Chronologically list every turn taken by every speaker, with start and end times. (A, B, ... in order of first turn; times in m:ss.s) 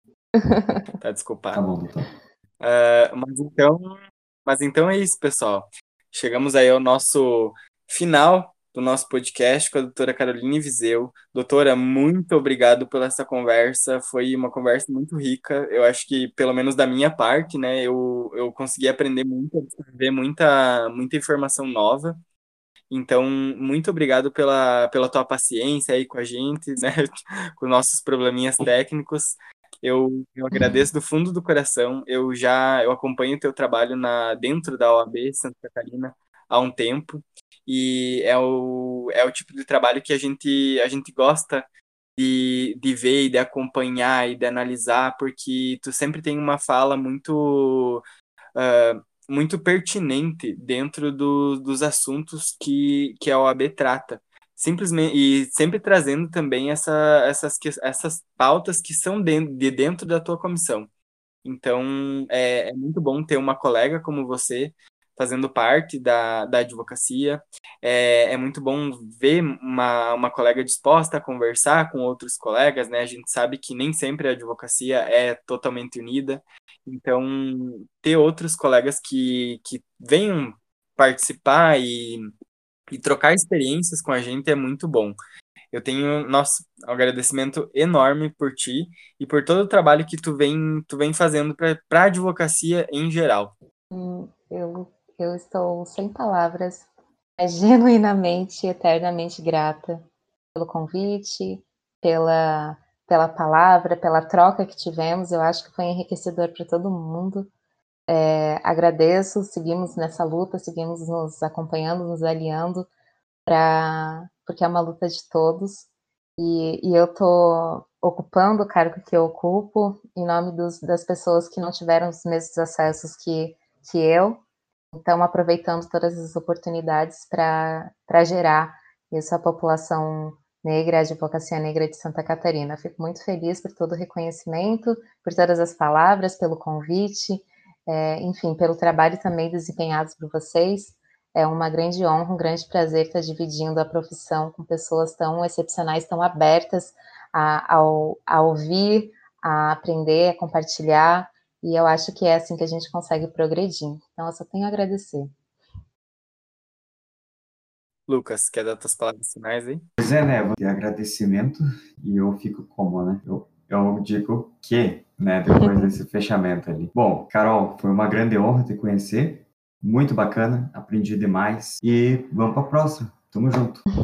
0:00.4-0:00.9 A
0:01.0-0:01.6 B
0:01.5-0:02.1 C
0:02.6-0:22.2 B
0:22.9-0:41.6 B
0:30.5-0:30.8 A
0:42.2-0:48.0 B
0:48.6-1:00.9 B
1:01.4-1:22.3 B
1:22.9-1:25.2 B
1:25.7-1:33.5 B
1:33.9-1:47.5 A
1:48.1-1:52.9 A
1:53.4-2:04.4 A
2:04.9-2:35.3 A
2:38.1-2:39.8 B
2:40.0-2:53.8 C
2:45.5-2:45.9 A